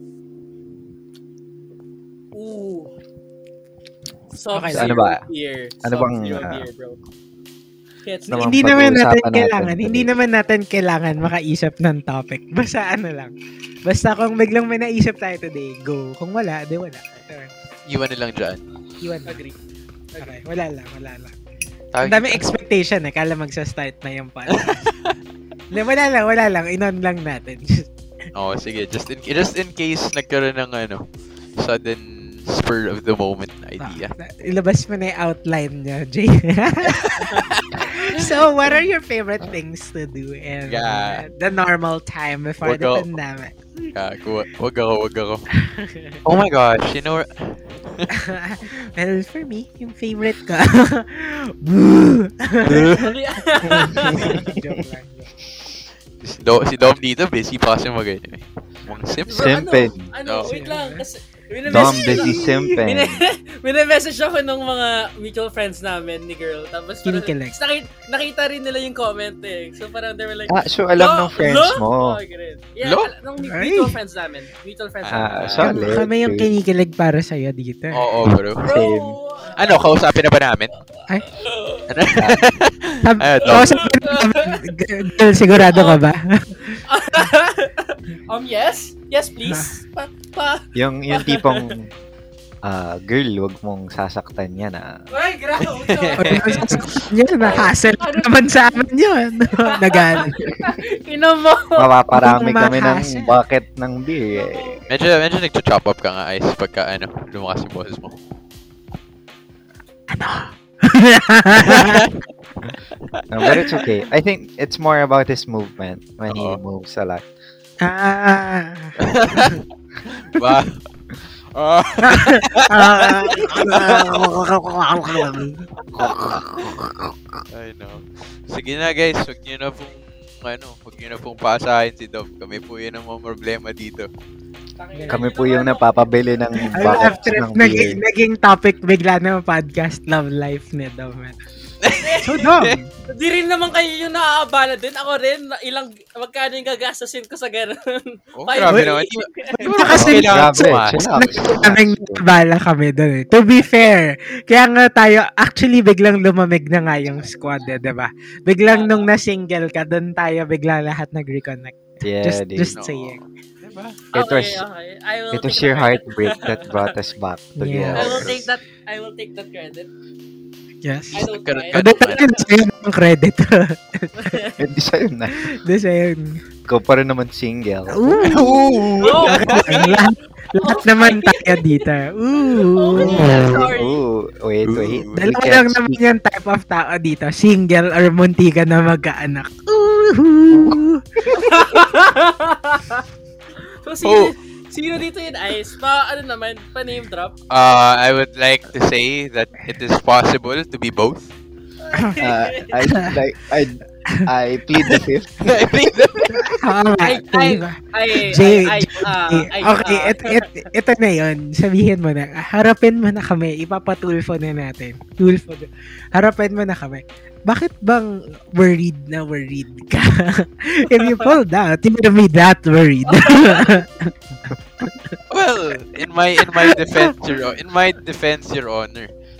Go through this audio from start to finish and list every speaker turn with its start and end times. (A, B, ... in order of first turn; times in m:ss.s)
0:02.3-0:02.9 A
0:04.3-0:07.0 A
0:04.5-0:04.9 B
0:04.7-0:05.2 C
0:05.8-0:06.6 C
0:08.0-0:08.6 A
0:08.3-0:10.1 C
0:08.3-0:13.3 B
0:13.8-0:17.5 B
0:17.8-0:18.6 D
0:19.0-0:19.4 B
0:19.2-0:19.6 A
0:20.1-0:20.4 A
0:20.2-0:21.3 B
0:21.9-0:22.5 D
0:22.0-0:24.8 B
0:24.5-0:25.2 D
0:25.7-0:27.9 B
0:28.3-0:31.0 D
0:31.6-0:34.1 D
0:33.8-0:43.9 B
0:36.9-0:38.8 D
0:40.6-0:41.3 D
0:42.6-0:43.1 D
0:43.9-0:45.4 D
0:45.6-0:46.2 B
0:46.2-0:48.1 D
0:48.1-0:53.1 B
0:52.6-0:52.9 D
0:52.7-0:54.4 A
0:53.7-0:55.3 B
0:54.2-0:54.5 C
0:56.2-0:59.6 D
0:59.2-1:15.6 A
0:59.3-1:00.1 C
1:00.2-1:00.5 D
1:00.4-1:01.0 B
1:01.6-1:03.2 C
1:01.7-1:02.7 B
1:07.0-1:07.5 B
1:10.5-1:12.2 C
1:12.8-1:13.1 D
1:13.4-1:14.0 B
1:15.0-1:15.8 D
1:15.1-1:16.5 C
1:15.6-1:18.0 B
1:17.9-1:18.7 D
1:18.6-1:19.2 C
1:18.6-1:19.9 A
1:19.5-1:20.7 D
1:21.2-1:21.9 A
1:21.9-1:23.8 D
1:22.2-1:22.5 C
1:23.0-1:26.8 B
1:23.4-1:24.6 A
1:25.5-1:26.0 A
1:26.7-1:31.7 A
1:29.4-1:29.7 B
1:30.7-1:31.9 C
1:32.6-1:35.1 C
1:35.1-1:38.8 A
1:35.6-1:37.0 D
1:36.2-1:40.4 B
1:39.6-1:41.9 A
1:41.8-1:44.8 C
1:42.1-1:43.3 B
1:44.3-1:44.8 A
1:44.9-1:48.2 D
1:50.1-1:52.1 B
1:51.7-1:52.1 D
1:53.1-1:53.8 D
1:53.3-1:57.2 C
1:56.3-1:56.6 D
1:57.8-1:59.0 B
1:59.0-2:00.8 D
2:01.5-2:04.3 D
2:02.0-2:07.1 B
2:03.2-2:03.8 A
2:05.1-2:06.7 D
2:07.5-2:14.1 D
2:14.8-2:17.3 A
2:14.9-2:15.2 B
2:15.1-2:18.0 C
2:16.7-2:21.4 B
2:21.8-2:22.8 D
2:21.9-2:22.5 A
2:22.2-2:22.8 B
2:23.1-2:29.7 A
2:28.4-2:31.6 D
2:29.7-2:43.2 B
2:29.9-2:32.2 C
2:38.7-2:39.1 A
2:42.0-2:42.7 C
2:42.7-2:44.0 D
2:44.1-2:46.9 A
2:44.1-2:44.6 C
2:45.3-2:48.5 C
2:47.6-2:48.3 B
2:47.9-2:49.9 A
2:50.8-2:51.2 B
2:51.1-2:52.2 D
2:51.1-2:52.5 A
2:51.7-2:54.3 B
2:54.2-2:54.6 A
2:54.6-2:55.5 C
2:55.5-2:56.4 B
2:56.7-2:58.3 C
2:57.9-3:03.6 B
2:58.2-3:00.0 D
2:59.0-3:01.8 A
3:02.4-3:04.0 A
3:03.0-3:06.0 C
3:04.6-3:05.1 D
3:05.1-3:11.0 B
3:10.6-3:11.3 C
3:11.2-3:13.0 A
3:13.8-3:17.3 A
3:14.0-3:14.3 D
3:17.5-3:21.3 D
3:21.8-3:22.8 A
3:22.2-3:26.4 C
3:22.9-3:23.2 B
3:24.8-3:26.6 D
3:26.6-3:44.1 B
3:27.0-3:30.6 A
3:40.9-3:41.3 A
3:43.1-3:43.8 A
3:44.8-3:45.1 B
3:45.3-3:49.1 D
3:46.4-3:47.1 B